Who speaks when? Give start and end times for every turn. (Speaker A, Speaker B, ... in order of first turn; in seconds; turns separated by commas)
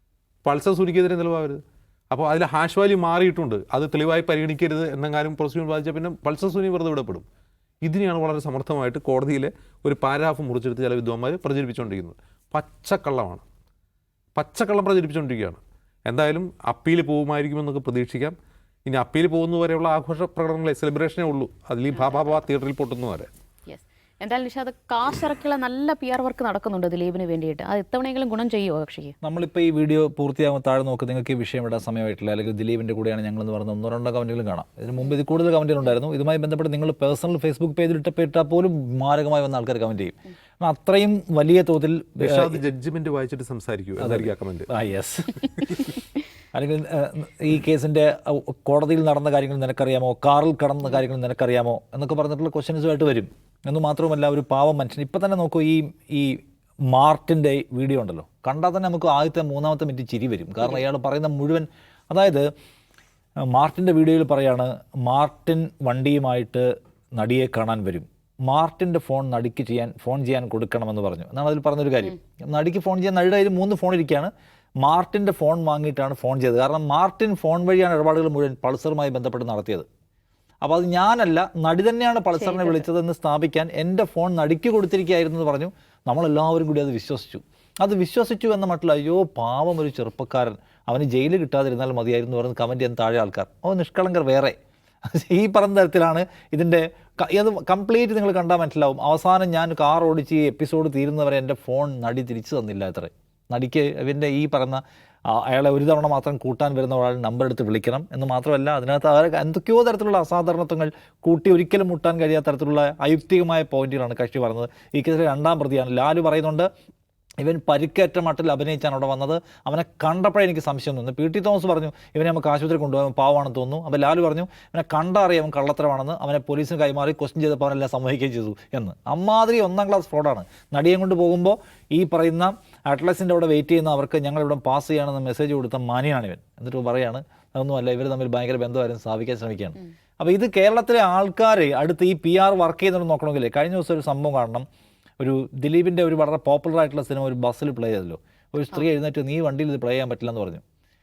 Speaker A: 0.4-7.2, Speaker A: 7.8-13.4, Speaker A: 14.3-23.3, Speaker B: 23.7-29.1, Speaker C: 29.2-42.6, Speaker A: 42.2-44.7, Speaker C: 44.0-46.0, Speaker C: 46.5-56.4, Speaker C: 56.9-62.5, Speaker C: 63.5-74.3, Speaker C: 74.8-79.8, Speaker C: 80.6-94.5, Speaker B: 82.3-82.9, Speaker C: 95.1-116.7, Speaker C: 117.4-144.6, Speaker C: 145.2-150.6